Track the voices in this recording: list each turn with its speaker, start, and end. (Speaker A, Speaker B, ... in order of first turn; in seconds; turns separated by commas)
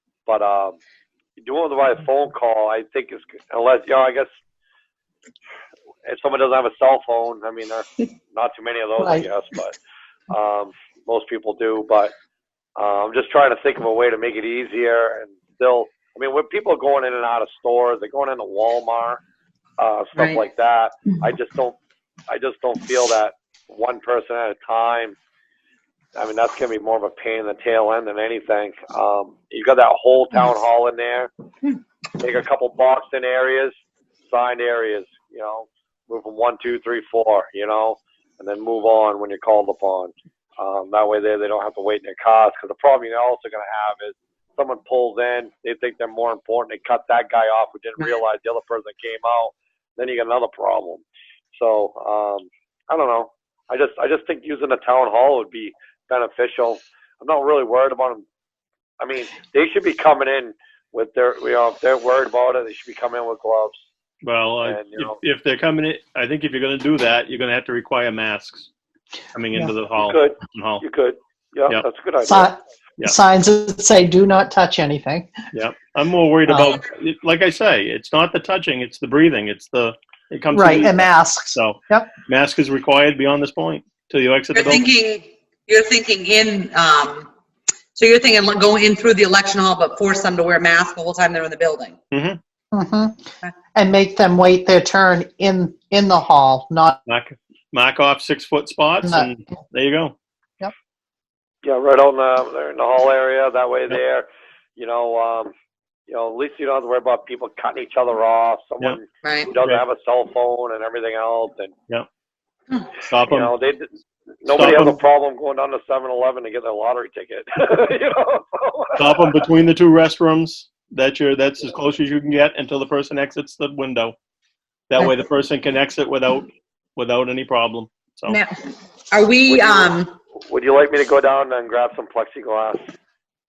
Speaker A: 0.2-0.8, Speaker A: 1.4-4.3, Speaker A: 6.0-9.7, Speaker B: 9.0-9.3, Speaker A: 10.3-12.1, Speaker A: 12.8-19.2, Speaker A: 19.8-21.8, Speaker C: 20.1-20.4, Speaker A: 22.3-25.2, Speaker A: 26.1-31.3, Speaker A: 32.2-58.2, Speaker A: 59.0-63.8, Speaker D: 64.2-68.7, Speaker A: 64.6-65.2, Speaker D: 69.3-70.8, Speaker A: 70.0-72.5, Speaker B: 72.2-75.3, Speaker D: 75.5-84.9, Speaker B: 76.5-76.8, Speaker B: 80.5-82.1, Speaker C: 84.5-87.3, Speaker C: 88.0-91.9, Speaker D: 92.1-92.4, Speaker B: 92.7-93.2, Speaker B: 93.7-97.0, Speaker D: 97.1-100.2, Speaker B: 99.0-99.3, Speaker A: 101.6-105.5, Speaker A: 106.1-111.7, Speaker C: 109.2-109.5, Speaker D: 113.1-113.5, Speaker A: 113.3-113.9, Speaker A: 114.4-119.3, Speaker D: 114.5-115.0, Speaker D: 119.0-124.2, Speaker D: 124.9-128.4, Speaker C: 129.1-130.1, Speaker A: 129.5-132.8